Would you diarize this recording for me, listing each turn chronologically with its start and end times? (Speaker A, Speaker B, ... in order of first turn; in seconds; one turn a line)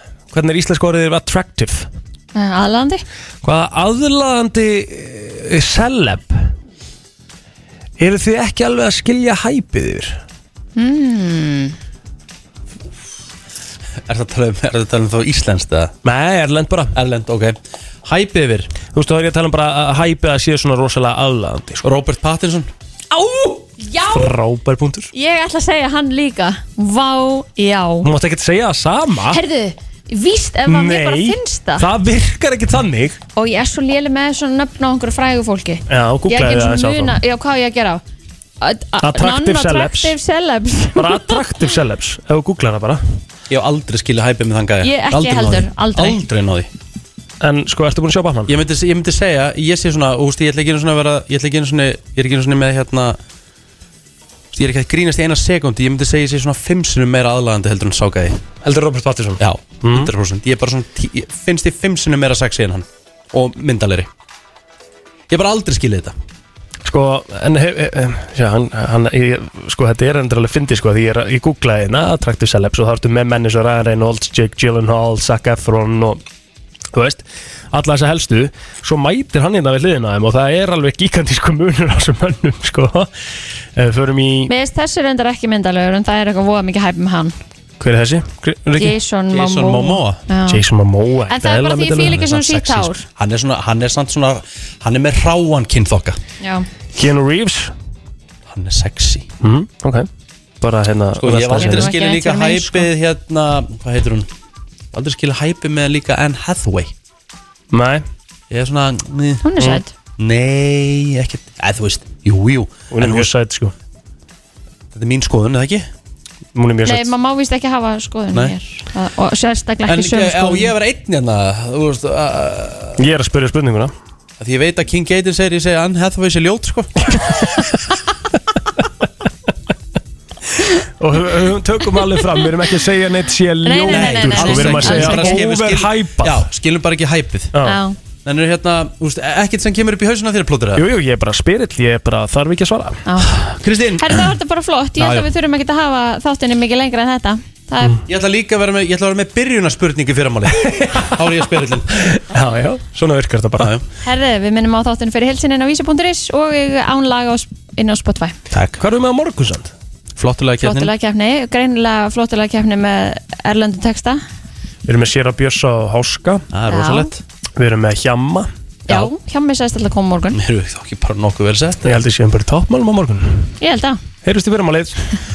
Speaker A: 0.3-1.9
Speaker B: 2.3-3.0
Speaker A: 3.4-6.5
Speaker A: 8.0-10.2
Speaker B: 10.8-11.8
Speaker C: 14.1-15.9
Speaker A: 16.0-16.9
Speaker C: 16.9-18.7
Speaker A: 18.9-21.9
Speaker C: 21.8-22.7
Speaker B: 23.1-24.3
Speaker A: 24.1-25.1
Speaker B: 25.1-28.1
Speaker A: 28.0-29.4
Speaker B: 29.3-31.9
Speaker A: 30.7-33.2
Speaker B: 33.4-38.0
Speaker A: 35.9-37.2
Speaker B: 38.6-41.4
Speaker A: 39.0-40.1
Speaker A: 41.0-43.0
Speaker C: 43.5-46.7
Speaker B: 44.8-46.2
Speaker A: 47.4-48.5
Speaker C: 48.5-53.2
Speaker C: 54.5-58.4
Speaker A: 58.6-60.1
Speaker C: 59.4-64.1
Speaker C: 65.3-66.2
Speaker A: 66.8-76.2
Speaker A: 76.9-83.1
Speaker A: 83.8-84.5
Speaker B: 84.5-87.3
Speaker A: 87.8-88.9
Speaker B: 88.8-90.6
Speaker C: 89.3-90.2
Speaker A: 90.5-92.2
Speaker B: 91.3-93.0
Speaker C: 91.9-96.2
Speaker B: 96.4-96.7
Speaker A: 96.9-97.7
Speaker C: 98.5-99.3
Speaker A: 99.4-100.1
Speaker A: 100.6-101.9
Speaker C: 101.2-104.3
Speaker B: 101.5-102.9
Speaker C: 104.9-106.9
Speaker A: 107.7-108.0
Speaker C: 108.5-113.3
Speaker B: 109.4-109.9
Speaker A: 112.9-113.7
Speaker C: 114.9-115.9
Speaker A: 116.5-117.1
Speaker B: 116.9-120.7
Speaker C: 119.9-123.0
Speaker A: 123.0-123.9
Speaker C: 124.4-126.9
Speaker A: 130.8-136.4
Speaker B: 133.7-135.4
Speaker C: 133.8-137.5
Speaker B: 137.6-137.9
Speaker C: 138.2-140.8
Speaker A: 140.8-143.0
Speaker B: 143.1-143.4
Speaker C: 143.3-144.3
Speaker B: 144.0-148.0
Speaker C: 145.0-145.3
Speaker C: 148.1-151.9
Speaker A: 150.7-151.1
Speaker A: 152.0-153.7
Speaker C: 153.6-153.8
Speaker B: 154.0-158.4
Speaker C: 158.5-158.8
Speaker A: 158.8-159.7
Speaker C: 160.2-160.9
Speaker B: 160.6-164.2
Speaker A: 164.8-166.4
Speaker C: 166.5-167.2
Speaker B: 166.7-167.1
Speaker A: 167.6-169.0
Speaker B: 168.9-170.4
Speaker C: 170.3-172.0
Speaker A: 171.8-173.5
Speaker B: 173.6-174.0
Speaker A: 174.2-175.0